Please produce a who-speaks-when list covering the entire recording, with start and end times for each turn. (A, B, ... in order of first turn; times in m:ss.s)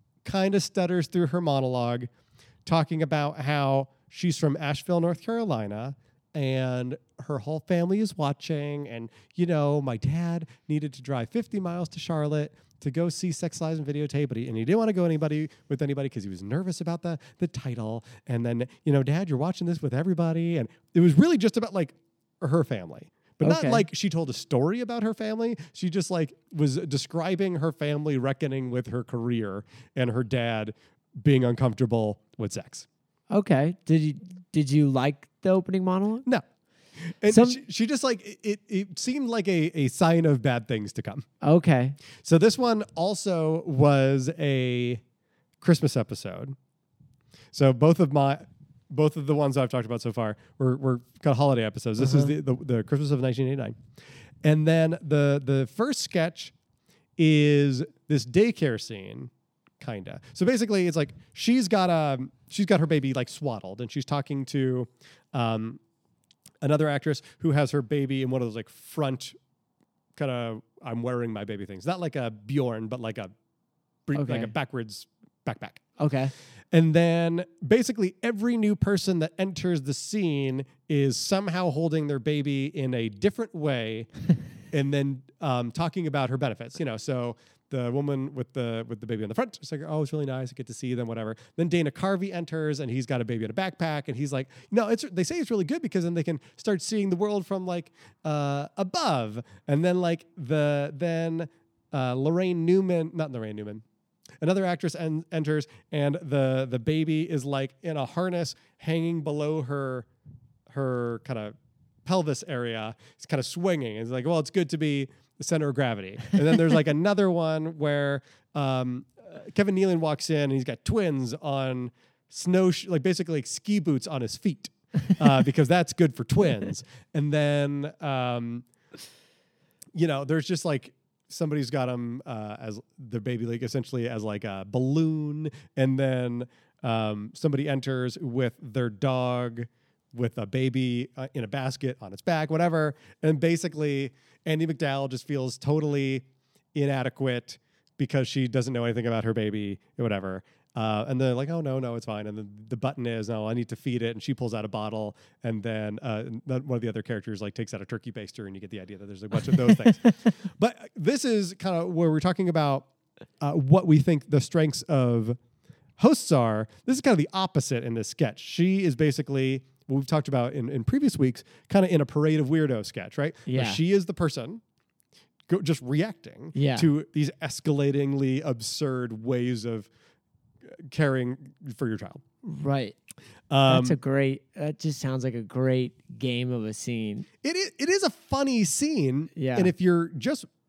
0:00.2-0:02.1 A
0:02.7-0:32.9 A
0:23.4-0:23.8 B
0:33.3-0:36.3 B
0:37.2-0:41.3 A
0:37.3-0:37.6 B
0:41.4-0:42.0 B
0:42.2-0:45.0 A
0:45.6-0:46.6 A
0:47.5-0:53.8 A
0:52.0-0:52.3 B
0:54.4-0:56.5 A
0:57.2-1:05.8 A
1:06.6-1:09.4 A
1:10.2-1:13.3 A
1:14.1-1:16.0 A
1:14.2-1:14.5 B
1:16.0-1:16.3 B
1:16.7-1:24.1 A
1:24.7-1:43.8 A
1:44.4-1:50.1 A
1:50.7-2:08.7 A
2:10.0-2:42.9 A
2:43.4-2:45.4 A
2:46.0-2:54.6 A
2:53.5-2:53.8 B
2:55.5-2:59.9 A
2:56.5-2:56.9 B
3:00.7-3:02.2 A
3:02.4-3:03.0 B
3:03.5-3:04.0 A
3:03.7-3:07.3 B
3:07.4-3:10.5 A
3:09.4-3:09.7 B